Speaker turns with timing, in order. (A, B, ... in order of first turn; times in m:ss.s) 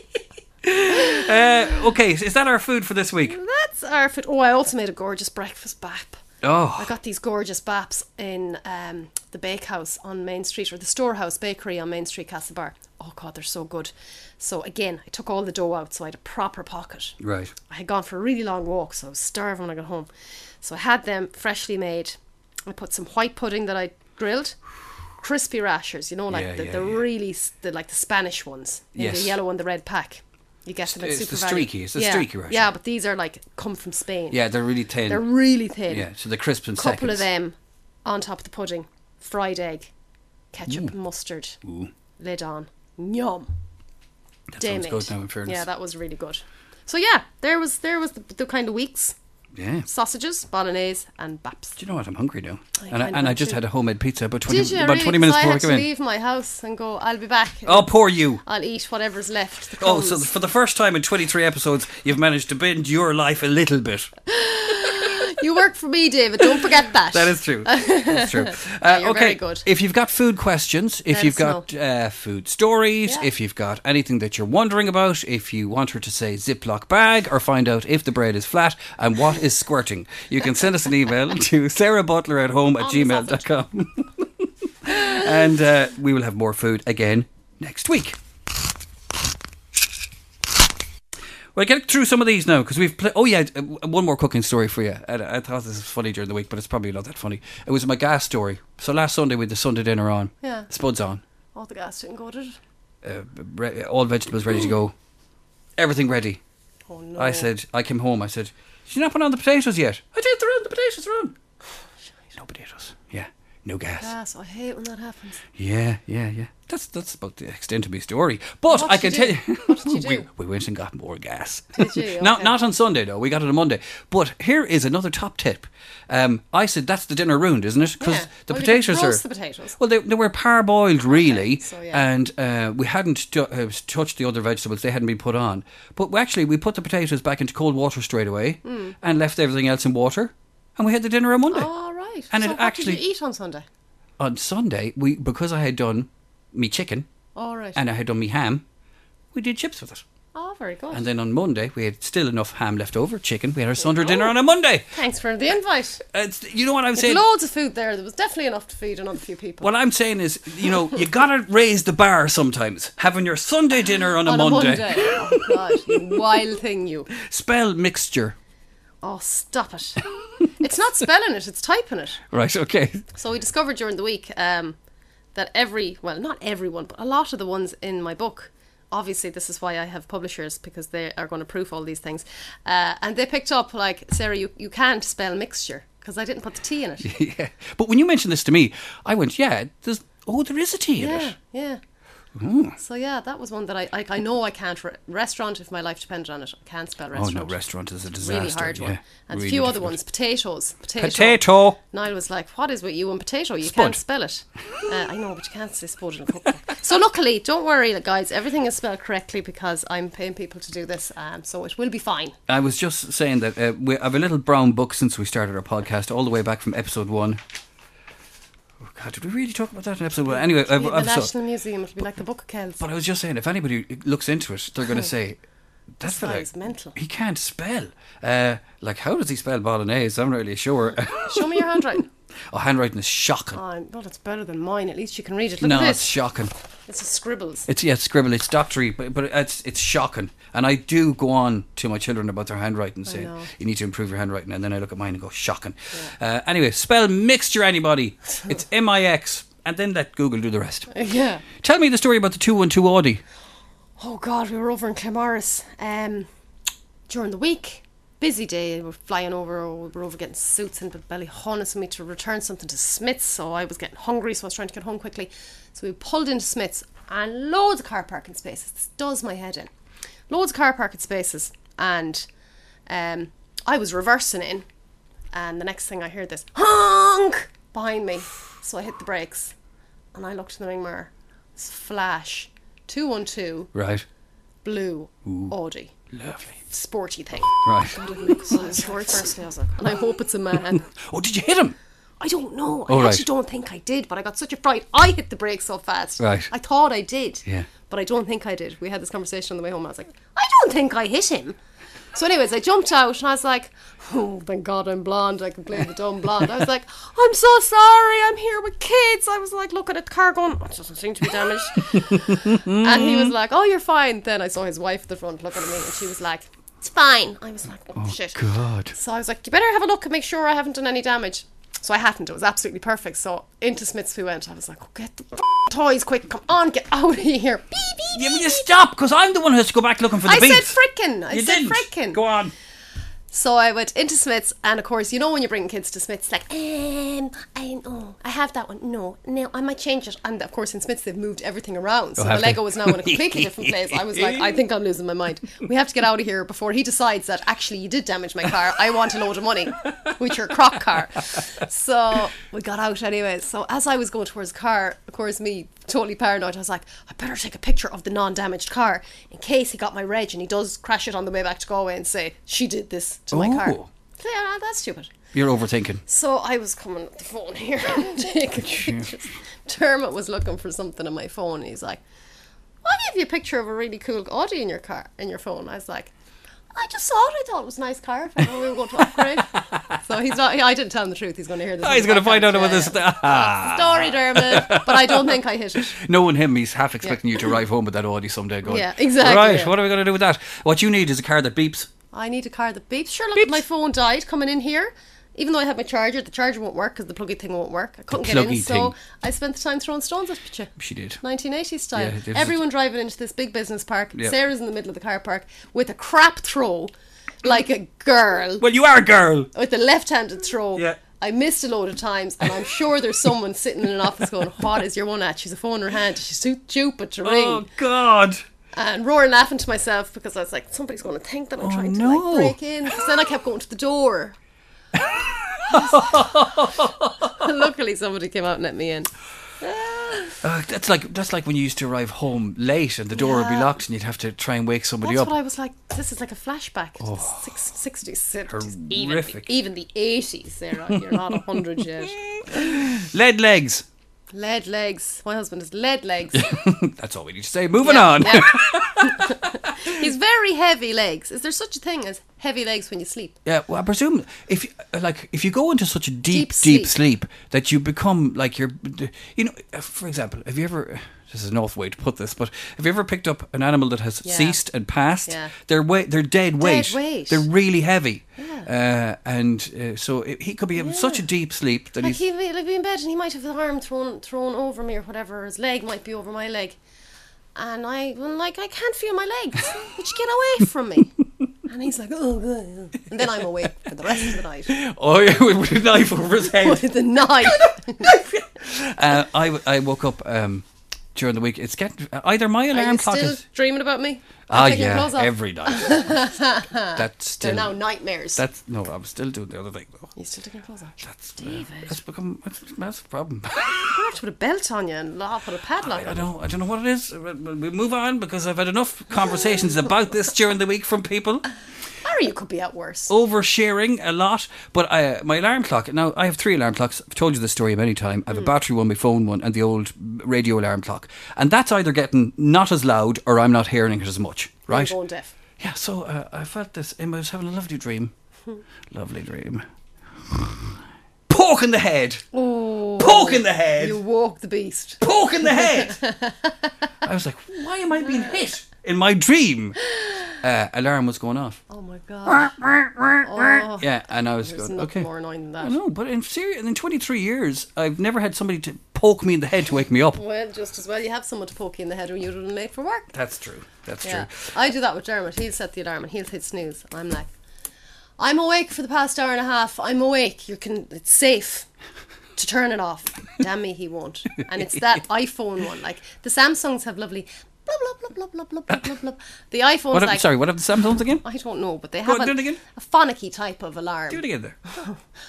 0:00.6-0:03.4 A
0:00.9-0:01.5 B
0:03.3-0:06.2 B
0:06.4-0:06.9 A
0:06.8-0:20.1 B
0:17.2-0:17.5 A
0:20.6-0:24.6 B
0:25.2-0:34.4 B
0:26.3-0:27.0 A
0:29.0-0:29.4 A
0:30.9-0:32.7 A
0:34.3-0:35.3 A
0:35.1-0:36.1 B
0:35.9-0:37.2 A
0:36.8-0:39.9 B
0:40.5-0:41.6 B
0:41.6-0:41.9 A
0:42.2-0:43.5 B
0:44.5-0:45.6 A
0:44.6-0:49.2 B
0:49.6-0:49.9 A
0:49.9-0:51.8 B
0:51.8-0:55.9 A
0:52.8-0:53.6 B
0:54.5-1:00.3 B
0:57.7-0:58.4 A
0:59.8-1:04.1 A
1:04.3-1:09.7 B
1:07.1-1:28.2 A
1:11.1-1:11.6 B
1:22.8-1:23.5 B
1:31.6-1:41.2 A
1:40.4-1:40.7 B
1:41.5-1:42.6 B
1:43.0-1:44.9 A
1:45.8-1:46.4 A
1:46.9-1:47.5 B
1:47.2-1:51.4 A
1:52.4-1:54.1 A
1:54.0-1:55.4 B
1:55.6-2:09.2 A
1:58.7-2:00.3 B
2:01.8-2:02.6 B
2:08.0-2:09.8 B
2:09.8-2:21.7 A
2:11.1-2:12.0 B
2:18.6-2:19.0 B
2:21.5-2:23.6 B
2:22.3-2:23.0 A
2:24.2-2:27.1 A
2:27.4-2:27.8 B
2:27.8-2:28.6 A
2:29.3-2:30.0 A
2:30.4-2:31.0 B
2:30.9-2:34.8 A
2:34.0-2:34.3 B
2:34.9-2:36.0 B
2:36.0-2:37.2 A
2:37.0-2:39.7 B
2:39.6-2:46.2 A
2:44.2-2:47.1 B
2:47.1-2:48.4 A
2:49.0-2:52.2 B
2:52.3-2:53.0 A
2:53.1-2:54.8 B
2:55.4-3:07.1 B
3:07.0-3:11.4 A
3:11.0-3:11.8 B
3:12.4-3:12.8 A
3:12.8-3:17.6 B
3:17.1-3:20.0 A
3:18.2-3:32.4 B
3:21.0-3:21.8 A
3:23.6-3:24.0 A
3:32.5-3:37.4 A
3:38.8-3:41.3 A
3:40.3-3:42.8 B
3:42.8-3:45.4 A
3:46.0-3:51.8 A
3:46.0-3:47.0 B
3:51.2-3:52.1 B
3:52.5-3:53.6 A
3:53.5-3:56.1 B
3:55.6-3:56.5 A
3:56.9-3:57.7 B
3:57.7-4:10.9 A
4:03.1-4:03.5 B
4:10.9-4:11.4 B
4:11.6-4:13.2 A
4:14.0-4:16.3 B
4:17.1-4:29.7 B
4:30.3-4:32.3 B
4:32.9-4:34.6 B
4:35.3-4:39.5 B
4:40.1-4:43.7 B
4:43.7-4:44.0 A
4:44.6-4:45.9 B
4:45.3-4:45.5 A
4:46.1-4:46.6 A
4:46.6-4:50.9 B
4:47.6-4:48.8 A
4:50.9-4:51.8 A
4:52.2-5:01.6 B
4:52.9-4:53.3 A
4:56.2-4:56.5 A
5:02.1-5:18.4 B
5:11.9-5:13.3 A
5:18.0-5:18.9 A
5:18.9-5:28.7 B
5:28.2-5:30.8 A
5:30.2-5:32.2 B
5:31.3-5:32.5 A
5:33.3-6:05.1 B
5:42.2-5:44.6 A
6:03.3-6:03.9 A
6:05.3-6:06.0 A
6:06.1-6:12.0 B
6:08.6-6:09.1 A
6:12.8-6:16.1 B
6:16.7-6:26.0 B
6:19.0-6:20.0 A
6:21.8-6:31.9 A
6:28.6-6:29.8 B
6:32.1-6:46.9 B
6:38.1-6:38.9 A
6:40.8-6:41.2 A
6:42.0-6:42.6 A
6:47.4-6:48.6 B
6:48.6-6:49.5 A
6:49.5-6:57.7 B
6:57.2-6:58.4 A
6:58.7-7:04.4 B
7:01.6-7:02.6 A
7:04.9-7:07.5 A
7:05.7-7:10.4 B
7:10.4-7:15.3 A
7:13.1-7:13.8 B
7:15.0-7:22.9 B
7:17.0-7:17.5 A
7:18.5-7:19.5 A
7:20.9-7:23.8 A
7:24.3-7:26.7 B
7:26.3-7:30.0 A
7:27.8-7:33.4 B
7:33.4-7:52.2 A
7:36.3-7:37.0 B
7:44.2-7:44.6 B
7:45.3-7:45.5 B
7:46.6-7:47.5 B
7:48.4-7:48.7 B
7:50.8-7:51.2 B
7:52.0-7:56.8 B
7:57.6-8:04.8 B
8:04.0-8:06.9 A
8:06.4-8:08.1 B
8:07.4-8:13.4 A
8:12.7-8:18.4 B
8:14.5-8:16.2 A
8:17.0-8:17.7 A
8:18.4-8:20.1 A
8:20.2-8:21.9 B
8:21.0-8:23.9 A
8:23.6-8:26.3 B
8:25.8-8:31.5 A
8:32.0-8:33.1 B
8:33.1-8:45.0 A
8:44.7-8:45.3 B
8:45.6-8:48.1 A
8:48.9-8:52.2 A
8:52.3-8:56.9 B
8:53.0-8:54.0 A
8:55.0-8:56.0 A
8:57.0-8:59.8 A
8:59.8-9:00.4 B
9:00.4-9:01.6 A
9:01.7-9:02.6 B
9:02.3-9:05.1 A
9:03.2-9:05.8 B
9:05.6-9:10.2 A
9:10.1-9:13.1 B
9:13.1-9:14.3 A
9:14.0-9:17.3 B
9:18.2-9:21.7 B
9:22.4-9:30.3 B
9:24.6-9:25.0 A
9:29.9-9:31.2 A
9:31.2-9:35.0 B
9:32.0-9:32.6 A
9:34.1-9:34.6 A